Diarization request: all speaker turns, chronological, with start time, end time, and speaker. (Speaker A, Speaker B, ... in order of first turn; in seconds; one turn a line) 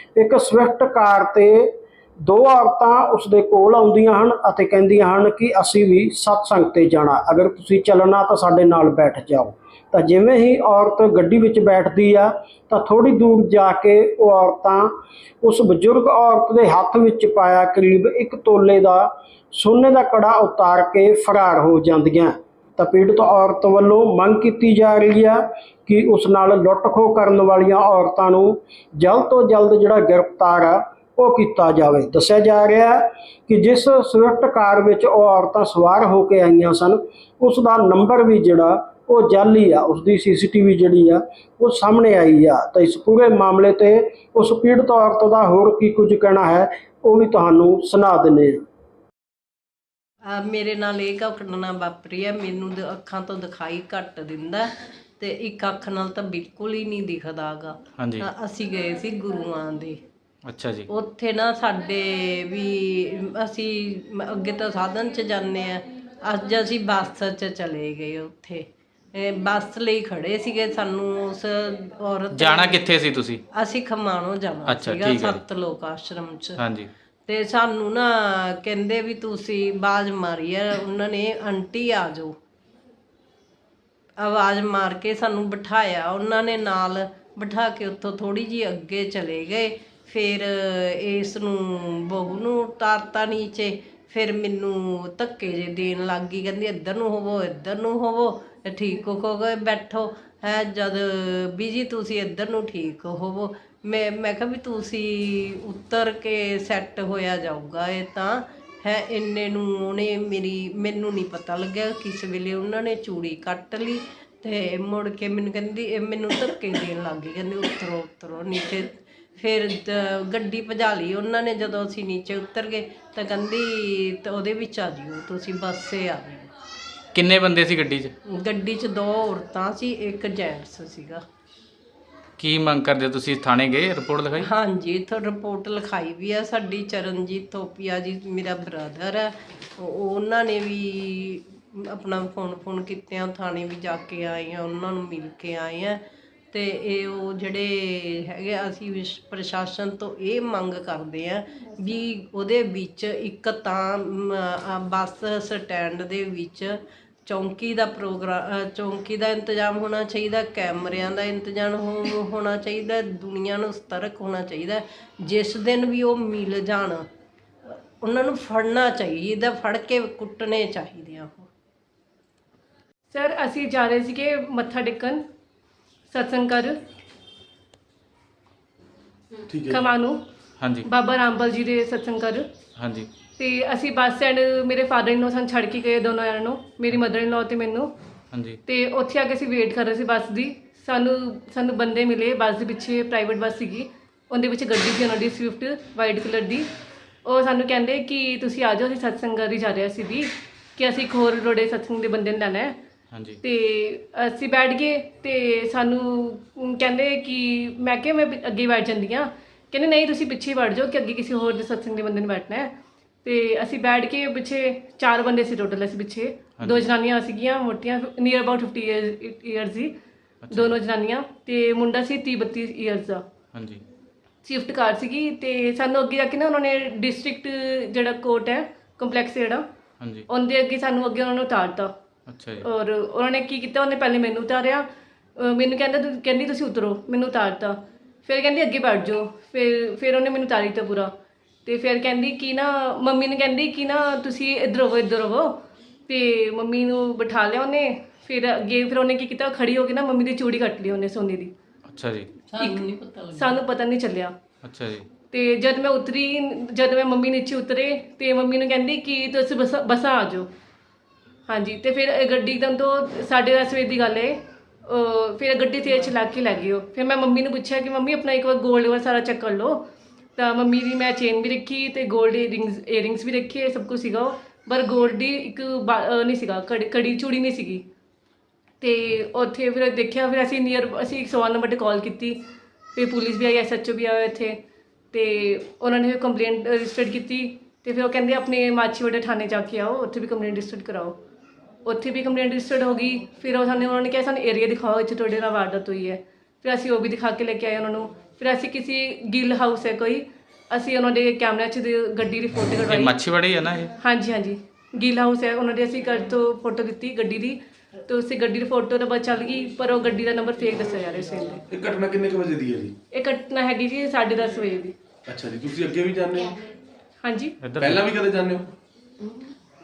Speaker A: 0.2-1.7
Speaker A: 2.2-14.9
Speaker A: 15.4-48.6
Speaker B: 50.2-60.0
Speaker C: 58.0-58.3
Speaker C: 60.5-60.9
Speaker B: 60.9-72.9
Speaker C: 72.3-73.4
Speaker B: 73.5-76.6
Speaker C: 74.7-75.4
Speaker C: 76.6-76.9
Speaker B: 77.3-82.3
Speaker B: 84.2-126.5
Speaker C: 127.1-128.1
Speaker B: 128.3-131.2
Speaker C: 132.4-134.5
Speaker B: 134.4-146.0
Speaker B: 146.5-167.1
Speaker B: 168.0-171.5
Speaker D: 173.1-175.2
Speaker D: 176.1-176.8
Speaker E: 179.5-179.8
Speaker D: 179.7-180.2
Speaker C: 180.6-180.8
Speaker D: 180.8-182.5
Speaker C: 182.8-183.1
Speaker D: 183.4-187.9
Speaker C: 188.3-188.6
Speaker D: 188.7-196.7
Speaker D: 197.2-202.8
Speaker C: 203.1-203.4
Speaker D: 203.4-212.7
Speaker D: 213.2-219.9
Speaker C: 216.6-216.8
Speaker C: 220.5-220.8
Speaker D: 220.5-223.2
Speaker C: 223.5-223.8
Speaker D: 224.4-229.6
Speaker D: 230.3-231.9
Speaker C: 232.3-232.7
Speaker D: 232.6-234.8
Speaker D: 235.4-241.1
Speaker D: 241.7-251.5
Speaker C: 251.9-252.3
Speaker B: 252.5-253.6
Speaker D: 253.3-254.3
Speaker C: 254.6-255.1
Speaker D: 255.3-260.5
Speaker D: 261.5-269.8
Speaker D: 270.4-277.9
Speaker D: 278.8-282.4
Speaker D: 282.9-284.6
Speaker D: 285.1-291.2
Speaker D: 291.8-303.1
Speaker C: 302.9-303.9
Speaker D: 303.9-311.6
Speaker E: 311.7-313.0
Speaker D: 313.1-314.9
Speaker E: 315.3-316.6
Speaker D: 317.2-317.6
Speaker C: 317.6-318.0
Speaker E: 317.8-318.7
Speaker B: 319.2-319.5